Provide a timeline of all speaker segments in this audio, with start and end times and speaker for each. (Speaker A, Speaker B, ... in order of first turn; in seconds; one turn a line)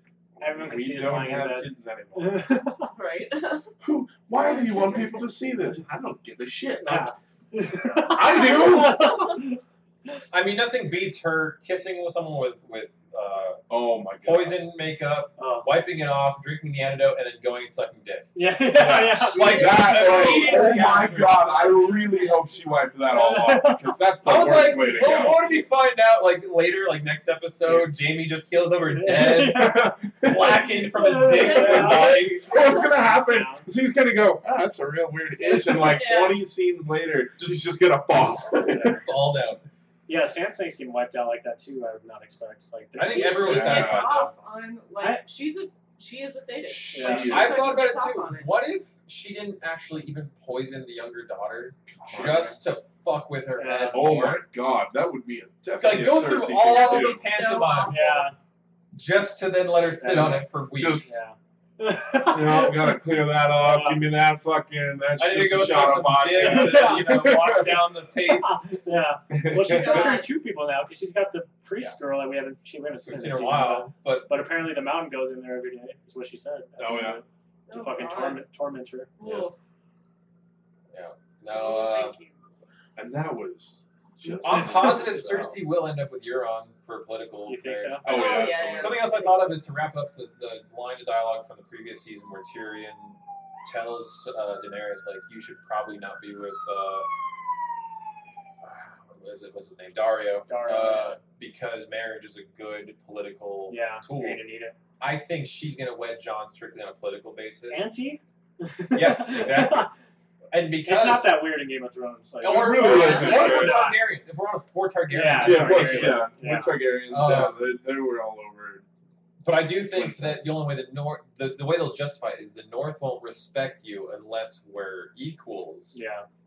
Speaker A: 0.3-2.6
Speaker B: 0.4-2.9
Speaker C: 2.9-3.7
Speaker A: 3.8-7.1
Speaker C: 4.3-5.3
Speaker B: 6.8-9.6
Speaker A: 7.8-9.3
Speaker D: 10.3-13.6
Speaker A: 13.7-14.6
Speaker D: 14.2-21.6
Speaker B: 15.4-15.7
Speaker B: 18.3-20.9
Speaker A: 18.7-25.6
Speaker C: 19.9-20.4
Speaker B: 23.1-23.9
Speaker D: 24.2-32.6
Speaker B: 28.9-30.0
Speaker A: 29.3-39.0
Speaker B: 30.9-33.7
Speaker C: 31.4-32.0
Speaker C: 35.5-36.4
Speaker B: 38.7-39.0
Speaker D: 39.0-39.6
Speaker B: 40.1-43.8
Speaker D: 43.0-44.3
Speaker C: 43.2-48.5
Speaker A: 43.4-44.1
Speaker A: 46.6-47.7
Speaker B: 46.9-47.3
Speaker D: 47.1-54.4
Speaker A: 51.9-52.6
Speaker B: 53.6-54.3
Speaker A: 53.9-57.3
Speaker D: 55.8-58.2
Speaker C: 56.6-58.3
Speaker B: 57.9-58.4
Speaker D: 58.9-61.2
Speaker B: 60.0-60.5
Speaker A: 60.0-61.2
Speaker B: 61.0-64.0
Speaker A: 62.2-67.9
Speaker D: 65.2-68.7
Speaker B: 66.3-67.5
Speaker B: 68.3-79.1
Speaker A: 69.3-70.2
Speaker C: 69.6-70.3
Speaker D: 73.0-74.5
Speaker A: 76.8-77.2
Speaker C: 77.7-78.4
Speaker C: 79.2-79.6
Speaker D: 79.2-79.5
Speaker D: 80.9-82.2
Speaker C: 81.5-82.4
Speaker A: 83.0-85.6
Speaker B: 84.2-84.9
Speaker D: 84.4-97.1
Speaker B: 87.5-88.5
Speaker A: 88.0-89.0
Speaker C: 88.1-89.6
Speaker D: 98.6-104.4
Speaker B: 100.5-101.2
Speaker B: 103.7-104.7
Speaker D: 105.0-107.9
Speaker B: 107.7-109.9
Speaker D: 108.9-110.0
Speaker D: 110.5-111.4
Speaker B: 110.8-114.0
Speaker D: 112.4-116.3
Speaker A: 112.4-113.9
Speaker C: 112.9-113.6
Speaker B: 115.1-116.8
Speaker A: 115.3-118.8
Speaker D: 117.1-117.6
Speaker D: 119.4-126.0
Speaker A: 119.8-120.5
Speaker B: 125.9-126.2